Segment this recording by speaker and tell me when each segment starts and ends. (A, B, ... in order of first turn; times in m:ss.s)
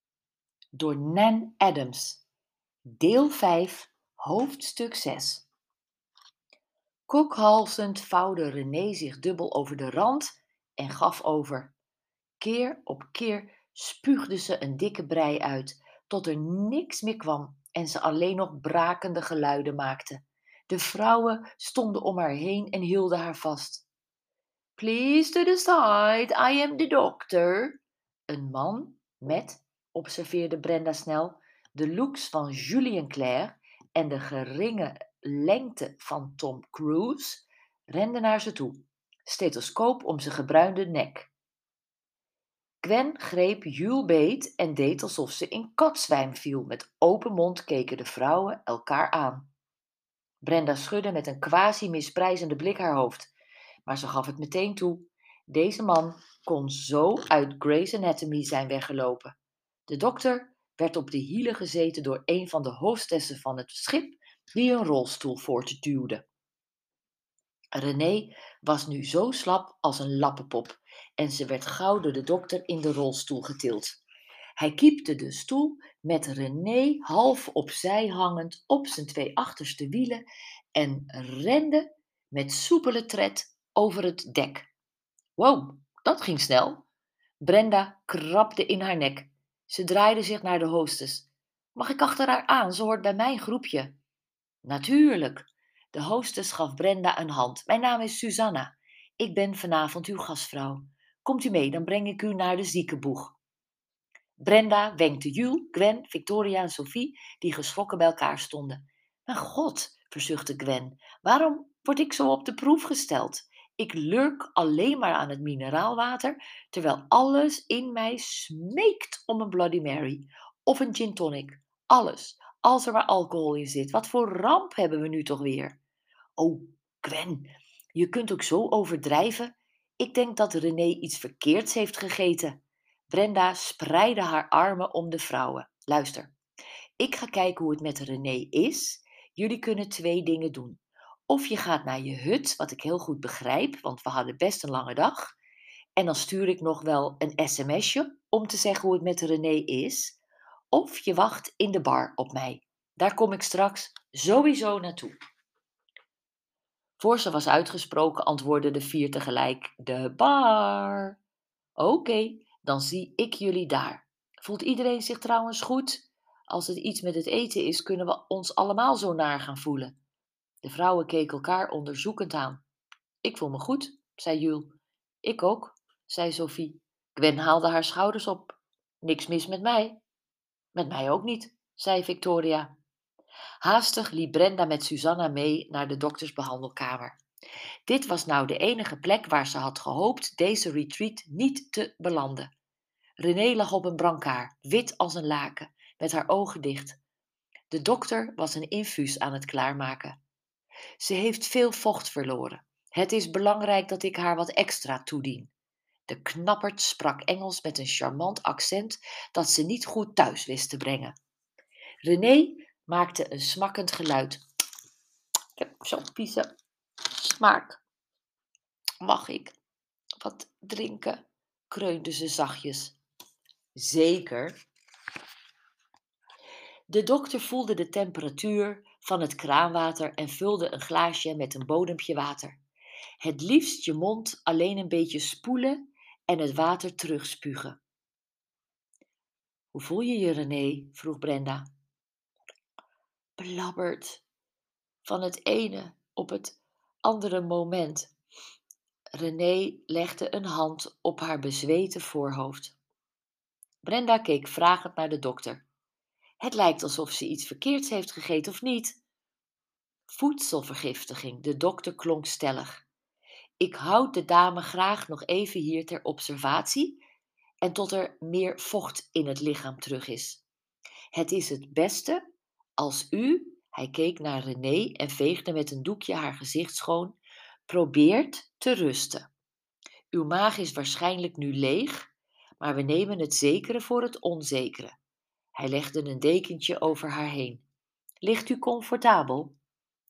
0:00.7-0:02.2 A
0:03.0-0:05.4 A
0:07.1-0:11.7 A
0:12.4-0:23.8 A
0:24.8-0:27.8 A
0:28.3-0:41.3 A
0:42.8-0:49.5 A
0:50.4-0:53.3 A
0:53.8-0:59.3 A
0:59.9-1:06.2 A
1:07.7-1:14.0 A
1:14.6-1:24.7 A
1:25.4-1:26.8 A
1:27.4-1:33.9 A
1:34.6-1:43.4 A
1:44.4-2:05.8 A
2:06.4-2:16.3 A
2:17.0-2:25.3 A
2:26.0-2:30.2 A
2:30.7-2:35.1 A
2:37.0-2:41.2 A
2:41.8-2:49.9 A
2:50.6-2:52.6 A
2:53.2-3:00.0 A
3:00.7-3:02.7 A
3:03.6-3:07.2 A
3:07.9-3:12.5 A
3:13.2-3:17.0 A
3:17.7-3:20.2 A
3:21.0-3:25.5 A
3:26.1-3:31.1 A
3:32.0-3:34.4 A
3:35.6-3:36.5 A
3:37.1-3:37.8 A
3:39.0-3:39.5 A
3:40.2-3:43.0 A
3:43.7-3:44.6 A
3:46.9-3:52.6 A
3:53.2-3:57.8 A
3:59.7-4:01.7 A
4:03.4-4:04.2 A
4:05.0-4:08.1 A
4:09.1-4:12.8 A
4:13.8-4:15.6 A
4:16.4-4:19.0 A
4:20.1-4:22.8 A
4:23.6-4:27.0 A
4:27.6-4:30.4 A
4:31.1-4:32.2 A
4:32.8-4:39.3 A
4:40.1-4:45.0 A
4:45.5-4:47.6 A
4:48.2-4:49.6 A